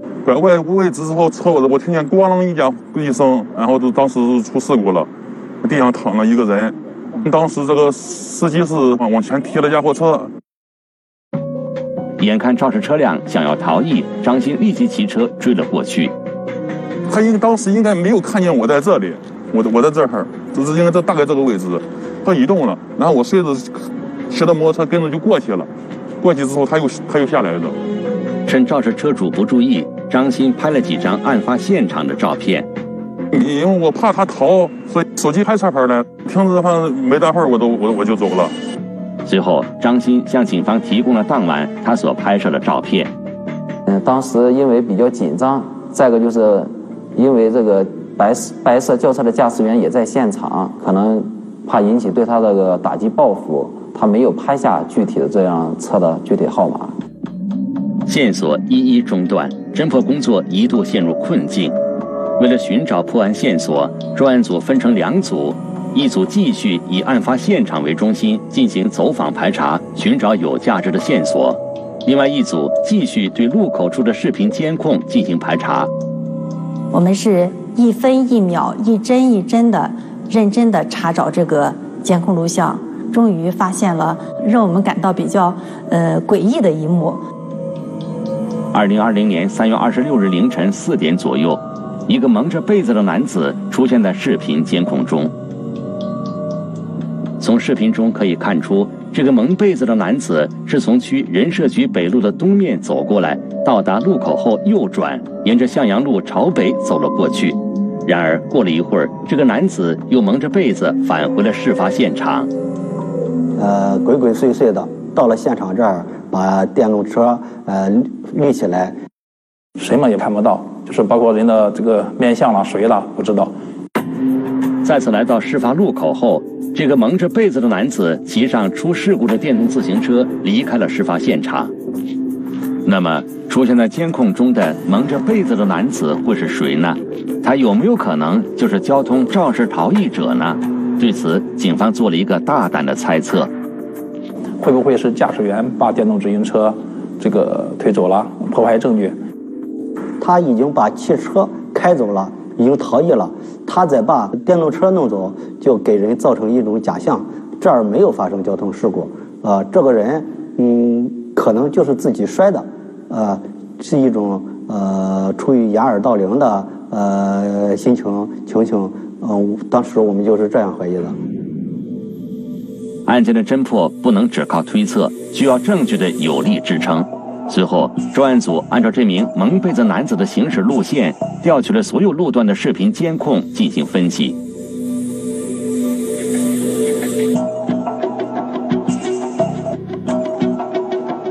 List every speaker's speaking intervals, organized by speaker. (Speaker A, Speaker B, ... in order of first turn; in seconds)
Speaker A: 0.2-5.1, 5.6-10.3, 17.1-25.7, 26.2-27.7, 33.3-38.5
Speaker B: 12.2-16.1, 28.5-32.7, 39.2-43.1, 58.0-61.7, 62.4-75.9, 88.7-95.3, 97.4-112.5, 124.8-131.7, 132.8-143.5, 173.1-184.4
Speaker C: 43.9-56.9
Speaker D: 76.9-87.2
Speaker E: 113.5-119.0, 150.2-171.1
Speaker F: 119.8-123.5, 144.6-149.2